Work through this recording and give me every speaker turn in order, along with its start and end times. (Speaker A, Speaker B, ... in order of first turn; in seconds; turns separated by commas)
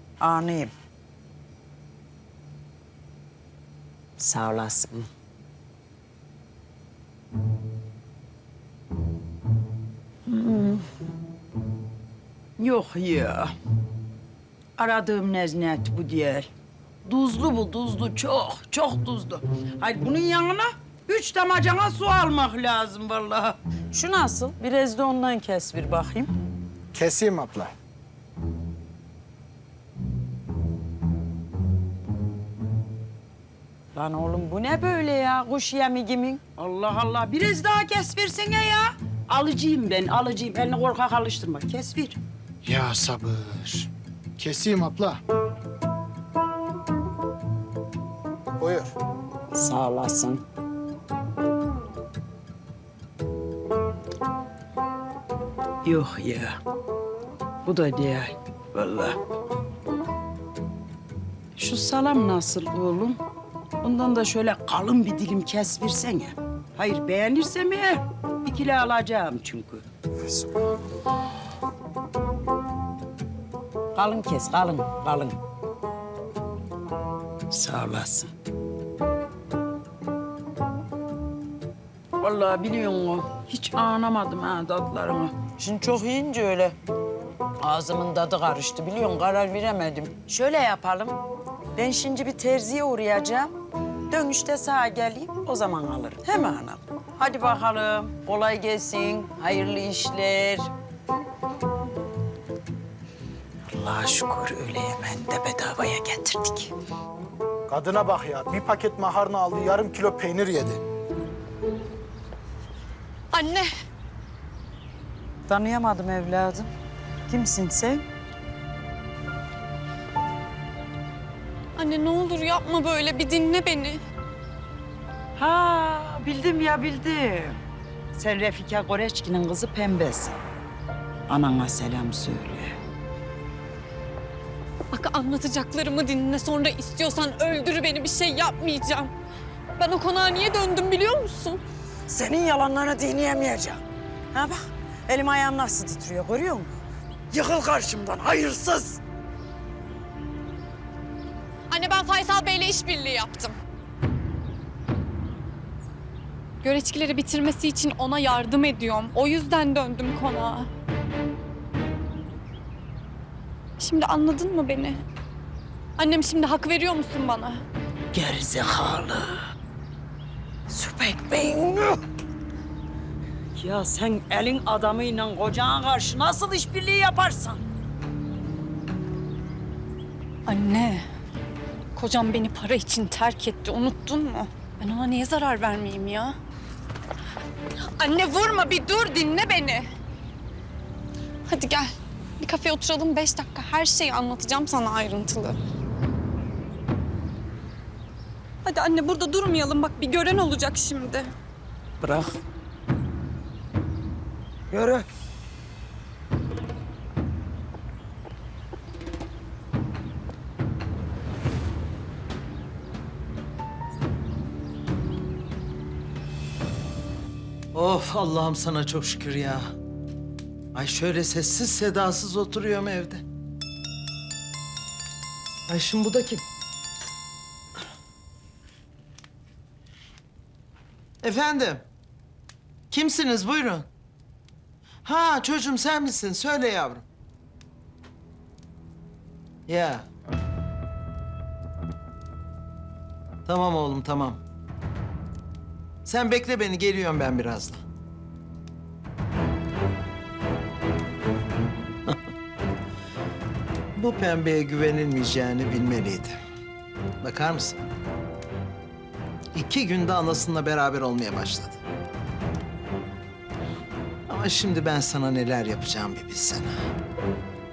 Speaker A: 0.2-0.7, Speaker A: 4.2-5.1, Speaker A: 10.3-10.9, Speaker A: 12.6-13.5, Speaker A: 14.8-16.5, Speaker A: 17.1-26.3, Speaker B: 26.9-27.7, Speaker A: 33.9-42.2, Speaker B: 42.6-45.2, Speaker B: 48.6-48.9, Speaker A: 49.5-50.4, Speaker A: 55.8-56.6, Speaker A: 57.6-59.2, Speaker A: 61.6-63.2, Speaker A: 63.8-69.8, Speaker A: 73.9-75.4, Speaker A: 77.5-78.3, Speaker A: 82.2-86.8, Speaker A: 87.6-91.2, Speaker A: 91.8-93.5, Speaker A: 94.1-100.7, Speaker A: 103.7-106.7, Speaker B: 107.7-110.8, Speaker C: 113.3-113.7, Speaker A: 115.5-116.7, Speaker A: 117.3-118.0, Speaker C: 121.8-124.0, Speaker A: 125.4-127.6, Speaker A: 128.1-130.4, Speaker A: 131.3-132.7, Speaker C: 134.9-139.1, Speaker C: 139.8-141.6, Speaker A: 142.1-143.8, Speaker A: 144.3-146.8, Speaker A: 147.3-149.0, Speaker C: 151.7-153.6, Speaker C: 156.6-160.7, Speaker C: 163.8-165.0, Speaker C: 166.0-167.6, Speaker A: 168.1-169.4, Speaker A: 170.7-172.0, Speaker A: 173.6-177.6, Speaker C: 180.5-181.1, Speaker C: 181.9-186.4, Speaker C: 187.8-189.9, Speaker C: 191.5-195.6, Speaker C: 198.6-201.3, Speaker A: 202.0-202.4, Speaker A: 204.7-205.1, Speaker D: 217.7-219.7, Speaker D: 220.8-223.2, Speaker D: 225.7-226.4, Speaker D: 231.2-231.9, Speaker D: 232.9-233.9, Speaker D: 235.0-237.1, Speaker D: 239.7-240.1, Speaker D: 243.5-244.4, Speaker D: 246.1-247.8, Speaker D: 253.9-256.4, Speaker D: 257.2-257.8, Speaker D: 259.5-261.8, Speaker D: 264.3-266.8